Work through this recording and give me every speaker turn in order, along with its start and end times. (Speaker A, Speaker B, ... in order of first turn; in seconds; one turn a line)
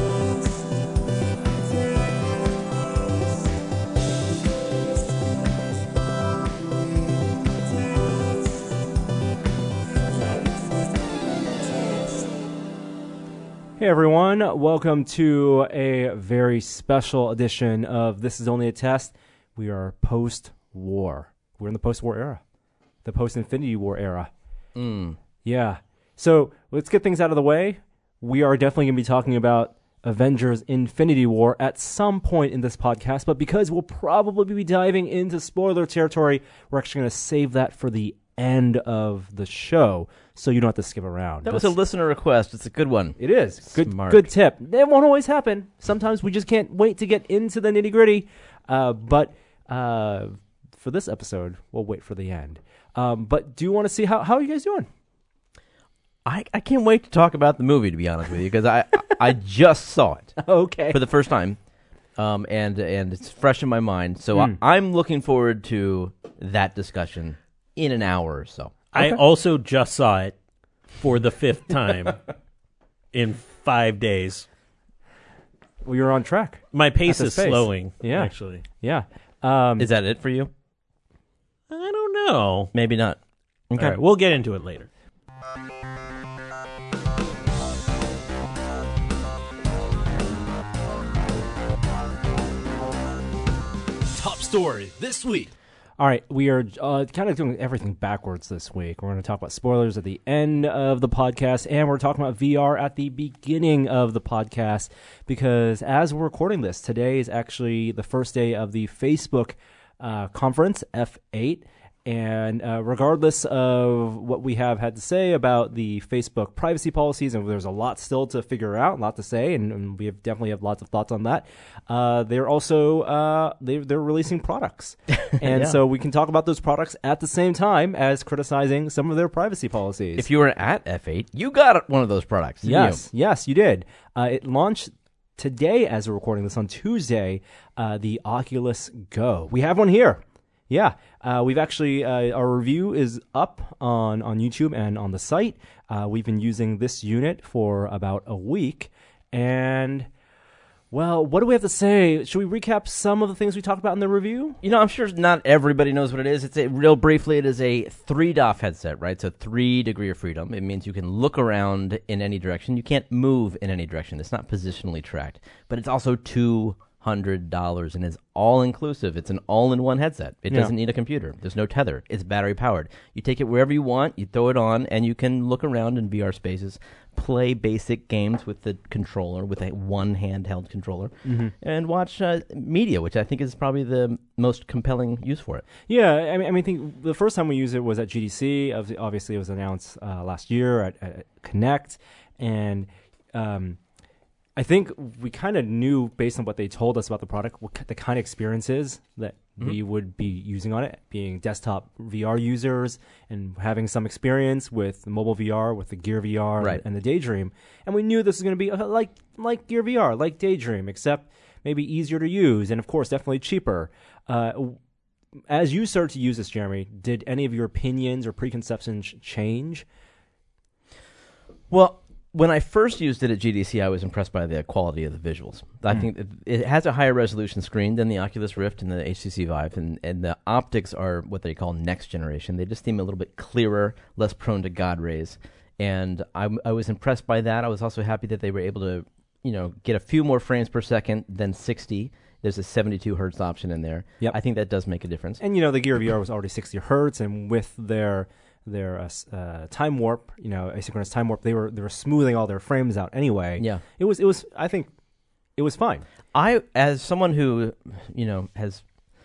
Speaker A: 13.8-22.4
Speaker A: 23.0-24.3
Speaker B: 24.7-25.2
Speaker A: 25.4-41.7
Speaker B: 41.4-44.3
Speaker A: 43.2-54.9
Speaker B: 56.2-60.4
Speaker A: 60.4-61.0
Speaker B: 60.9-61.6
Speaker B: 62.2-69.2
Speaker C: 68.9-70.3
Speaker C: 71.0-72.2
Speaker C: 73.1-74.5
Speaker A: 75.8-79.9
Speaker C: 76.7-78.6
Speaker B: 79.8-80.5
Speaker C: 81.7-82.7
Speaker B: 82.7-83.2
Speaker B: 83.7-84.0
Speaker C: 83.8-84.9
Speaker A: 94.1-130.3
Speaker B: 125.1-125.8
Speaker B: 130.2-133.0
Speaker A: 132.6-150.1
Speaker A: 150.9-154.6
Speaker B: 154.6-185.6
Speaker A: 181.2-181.5
Speaker A: 185.9-193.8
Speaker A: 194.6-214.8
Speaker A: 215.5-219.8
Speaker B: 221.7-245.4
Speaker A: 245.4-254.9
Speaker A: 255.6-256.0
Speaker B: 256.3-258.8